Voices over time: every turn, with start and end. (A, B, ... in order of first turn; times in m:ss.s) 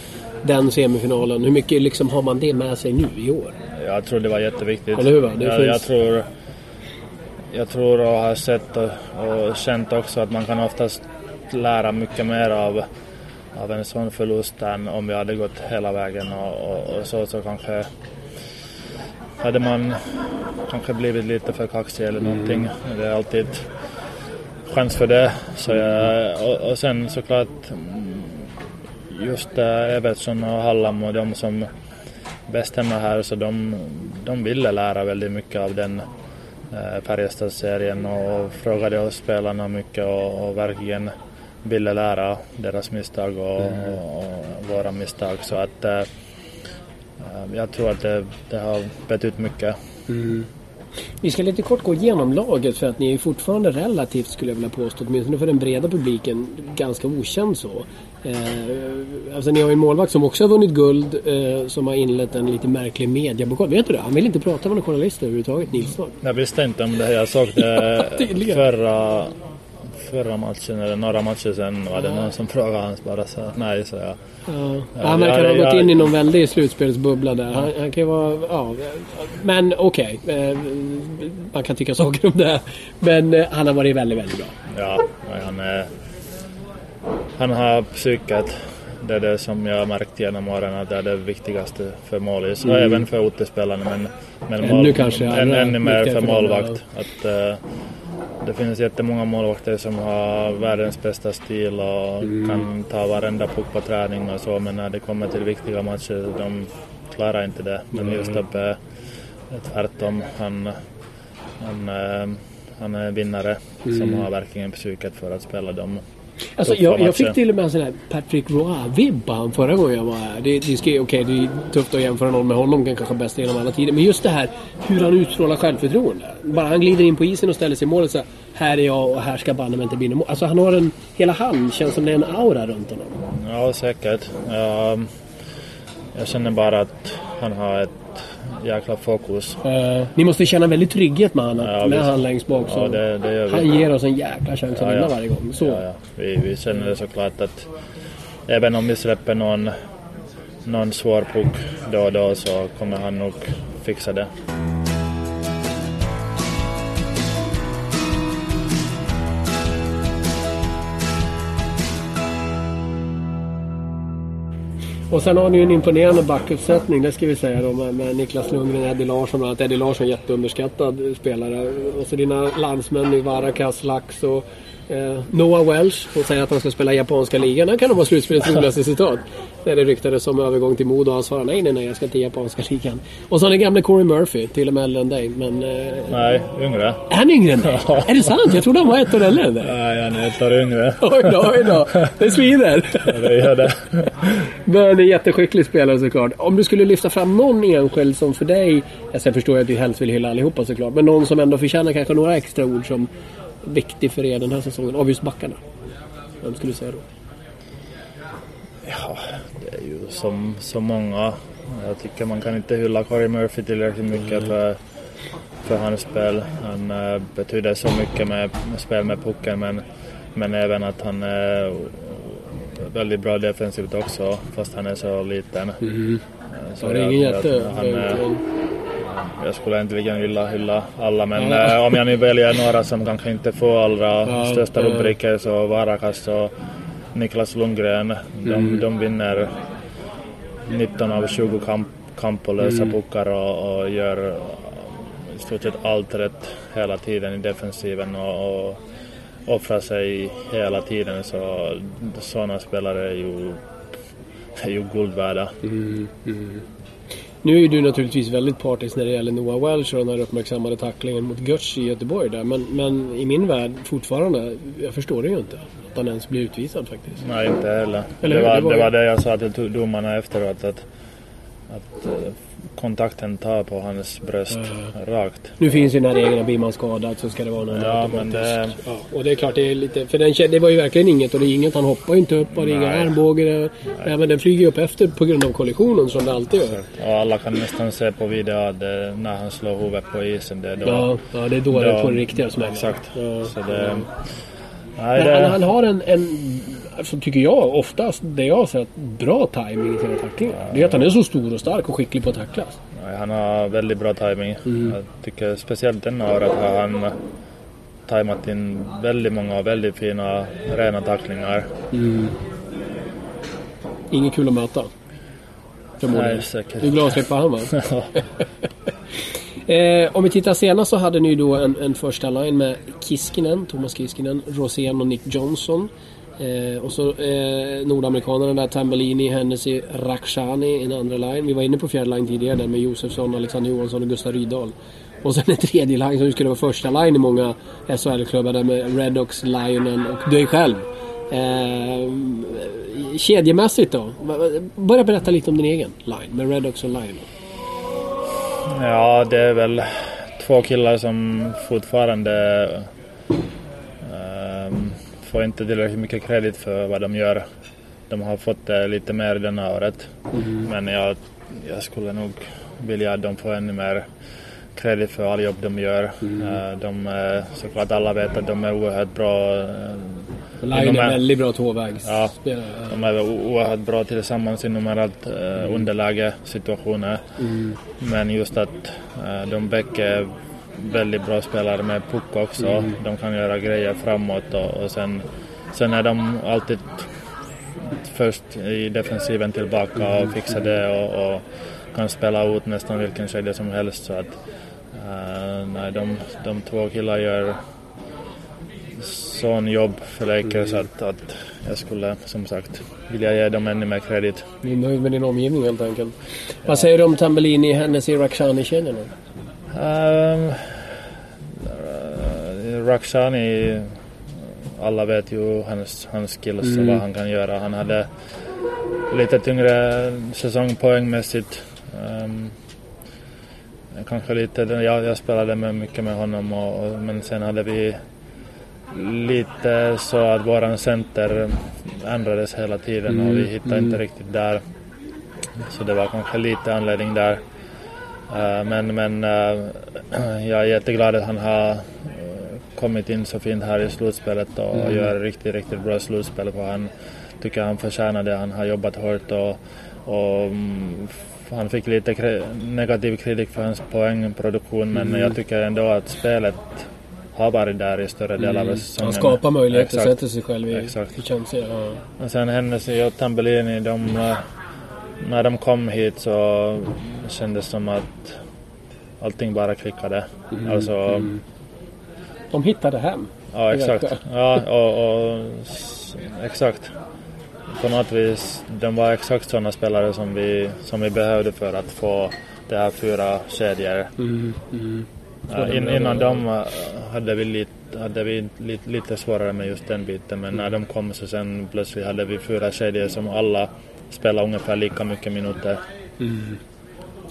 0:00.4-0:03.6 A
0:03.7-0:06.3 B
0:05.0-0:05.8 A
0:07.5-0:12.9 B
0:13.5-0:17.9 B
0:19.4-0:23.7 B
0:24.6-0:31.7 B
0:32.5-0:36.0 B
0:36.7-0:41.1 B
0:41.6-0:46.1 B
0:47.2-0:49.8 B
0:50.1-0:50.5 A
0:51.2-1:06.2 A
1:06.2-1:14.2 B
1:07.8-1:08.6 A
1:14.5-1:24.5 A
1:15.0-1:16.1 B
1:24.7-1:25.9 B
1:27.4-1:37.6 B
1:32.6-1:33.0 A
1:34.6-1:36.8 A
1:38.4-1:48.8 B
1:49.5-1:50.8 B
1:51.6-1:56.0 B
1:53.9-1:54.1 A
1:56.6-2:13.2 A
1:56.6-1:57.4 B
2:13.2-2:15.1 B
2:16.1-2:19.6 B
2:19.6-2:25.8 A
2:21.6-2:23.7 B
2:24.7-2:27.7 B
2:28.5-2:29.7 B
2:30.6-2:34.3 B
2:45.1-3:06.2 A
3:06.1-3:07.1 B
3:07.1-3:09.7 A
3:07.6-3:08.3 B
3:09.6-3:11.8 B
3:11.0-3:13.4 A
3:13.0-3:14.5 B
3:14.6-3:23.1 A
3:23.6-3:25.6 A
3:26.4-3:27.0 A
3:28.8-3:34.8 B
3:35.6-3:45.9 B
3:45.8-3:46.2 A
3:46.5-3:48.2 B
3:46.8-3:48.4 A
3:49.0-3:56.5 B
3:51.4-3:51.8 A
3:54.2-3:55.1 A
3:57.1-3:59.6 B
4:00.6-4:08.8 B
4:09.4-4:13.6 B
4:14.6-4:15.5 B
4:15.6-4:16.6 A
4:17.4-4:27.2 A
4:27.2-4:30.8 B
4:28.2-4:28.9 A
4:31.7-4:35.6 B
4:34.6-4:34.9 A
4:35.6-4:46.8 A
4:37.7-4:38.8 B
4:42.6-4:43.2 B
4:46.6-4:51.1 B
4:50.8-4:54.0 A
4:51.7-4:54.1 B
4:55.0-4:55.6 B
4:55.2-5:02.8 A
5:00.6-5:01.0 B
5:02.9-5:07.1 B
5:04.7-5:04.9 A
5:08.0-5:11.7 B
5:11.9-5:12.3 A
5:14.1-5:14.9 A
5:16.0-5:17.8 A
5:16.1-5:18.1 B
5:19.6-5:47.3 A
5:48.6-5:52.9 B
5:54.0-5:57.4 B
5:58.1-6:04.1 B
6:00.3-6:00.6 A
6:04.7-6:11.2 B
6:06.2-6:06.5 A
6:10.6-6:13.0 A
6:12.0-6:12.3 B
6:12.9-6:17.4 B
6:17.4-6:17.7 A
6:18.0-6:27.1 B
6:27.8-6:34.4 B
6:34.9-6:37.6 B
6:39.0-6:44.4 B
6:44.6-6:49.1 A
6:49.7-6:54.0 B
6:54.8-6:58.1 B
6:56.7-6:57.0 A
6:59.1-7:02.6 B
7:03.9-7:08.0 B
7:08.9-7:14.6 B
7:13.2-7:13.9 A
7:15.6-7:17.4 B
7:18.3-7:40.2 B
7:38.4-7:42.0 A
7:40.7-7:41.1 B
7:42.2-7:44.5 B
7:45.2-7:48.4 B
7:49.2-7:51.3 B
7:50.5-7:51.4 A
7:52.5-7:54.2 A
7:53.5-7:56.9 B
7:57.7-8:04.1 B
8:04.2-8:06.4 A
8:05.5-8:15.8 B
8:16.2-8:16.6 A